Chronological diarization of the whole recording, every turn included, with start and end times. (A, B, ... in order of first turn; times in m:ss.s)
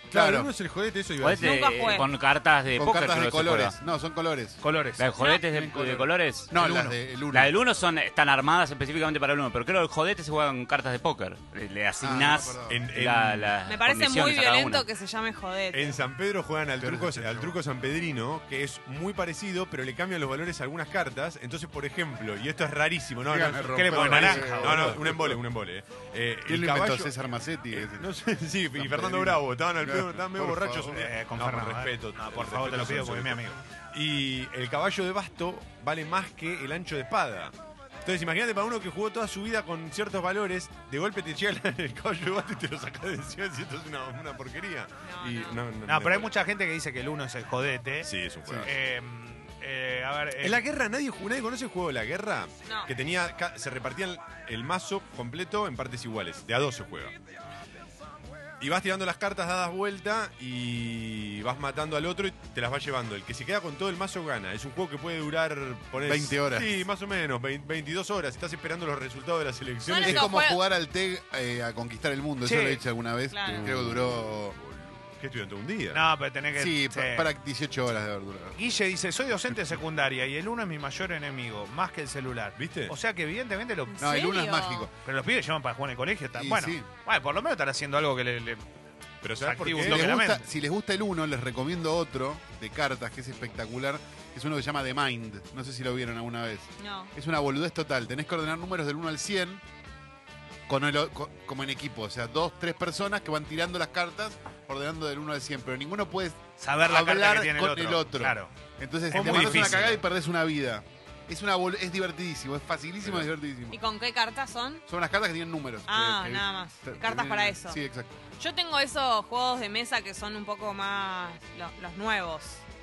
0:00.1-0:01.7 A
0:00.1-0:00.5 B
0:01.2-0:03.8 C
0:01.4-0:02.1 D
0:02.8-0:04.6 B
0:04.6-0:05.1 E
0:05.0-0:06.7 C
0:05.2-0:05.4 D
0:05.5-0:07.6 B
0:07.3-0:14.9 C
0:12.0-0:12.9 B
0:12.7-0:13.6 A
0:13.7-0:16.0 D
0:15.7-0:27.1 A
0:16.8-0:17.5 B
0:23.3-0:25.4 B
0:23.7-0:24.9 E
0:26.5-0:28.1 B
0:27.8-0:37.5 A
0:28.7-0:31.0 B
0:30.9-0:33.6 E
0:38.0-0:46.3 A
0:45.0-0:45.6 D
0:45.8-0:48.1 E
0:48.0-0:48.7 A
0:48.4-0:48.7 B
0:48.6-0:50.6 E
0:50.4-0:57.1 A
0:52.7-0:52.9 D
0:58.6-1:10.3 A
1:06.0-1:06.7 B
1:09.8-1:10.6 D
1:10.0-1:14.6 B
1:12.4-1:12.8 E
1:13.3-1:13.7 D
1:13.5-1:16.0 A
1:15.9-1:17.3 E
1:16.6-1:18.6 B
1:18.6-1:24.0 E
1:22.6-1:22.9 A
1:24.0-1:24.9 D
1:24.0-1:24.9 B
1:25.0-1:28.6 E
1:26.4-1:26.9 B
1:29.2-1:30.1 A
1:29.4-1:30.4 E
1:29.8-1:39.6 B
1:36.8-1:37.1 D
1:40.7-1:53.8 B
1:46.6-1:48.5 E
1:49.1-1:50.0 E
1:49.1-1:49.9 A
1:53.7-1:54.8 D
1:54.9-1:58.1 B
1:55.9-1:57.8 D
1:58.4-2:02.6 D